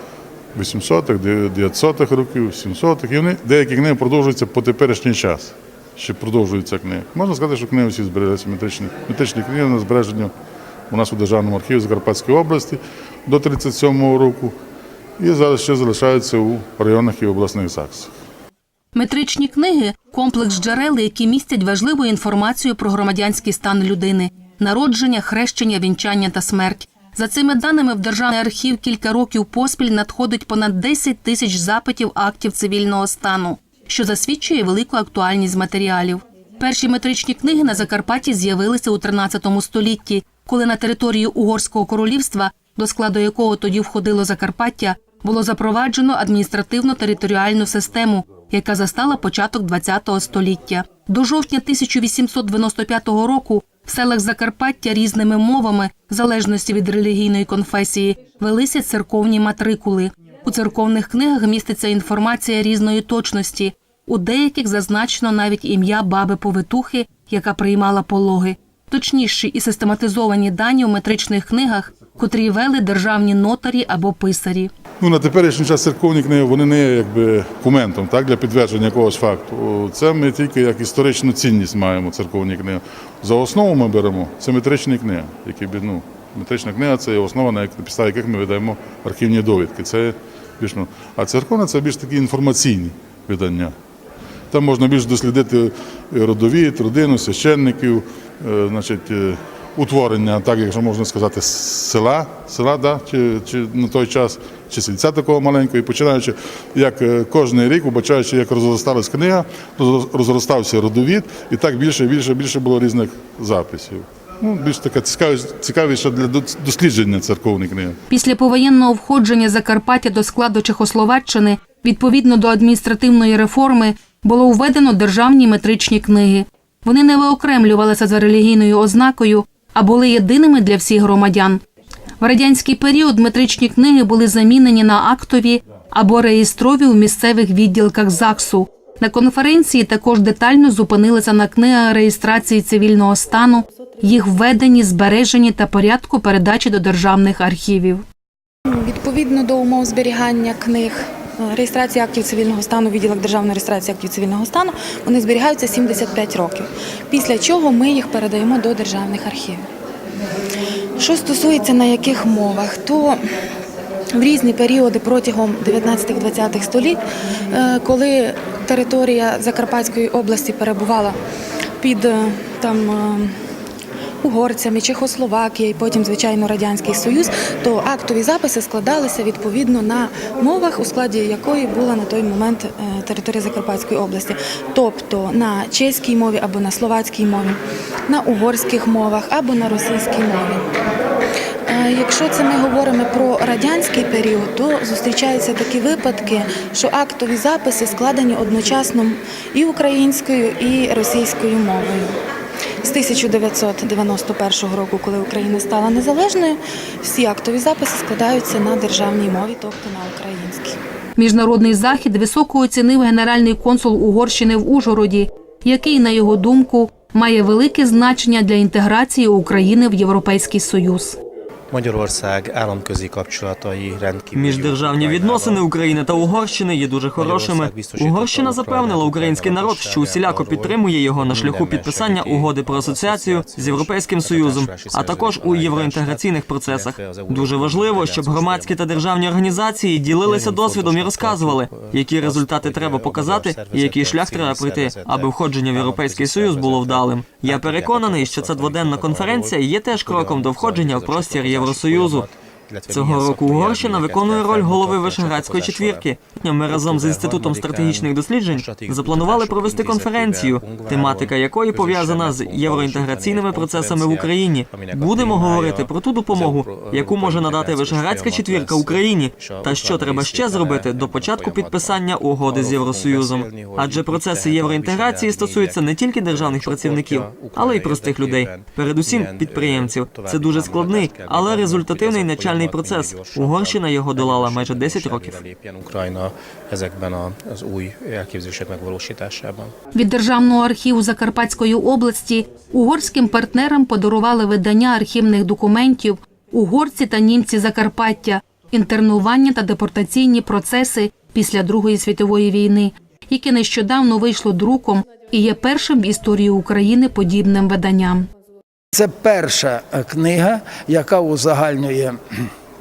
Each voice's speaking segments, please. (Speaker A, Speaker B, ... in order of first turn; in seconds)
Speaker A: 0.5-10.3, 10.9-14.6, 15.2-18.1, 75.0-93.7, 94.5-118.0
Speaker B: 18.9-74.7, 118.1-131.6, 132.2-148.0, 211.2-221.2, 289.9-308.3
Speaker C: 148.7-159.7, 161.0-163.2, 164.1-171.2, 171.8-173.3, 174.2-190.7, 191.7-202.2, 202.8-210.8
Speaker D: 221.7-225.6, 227.2-239.0, 240.2-256.0, 256.7-275.8, 276.3-289.7
Speaker E: 224.3-252.3, 252.9-285.4
Speaker F: 308.9-312.4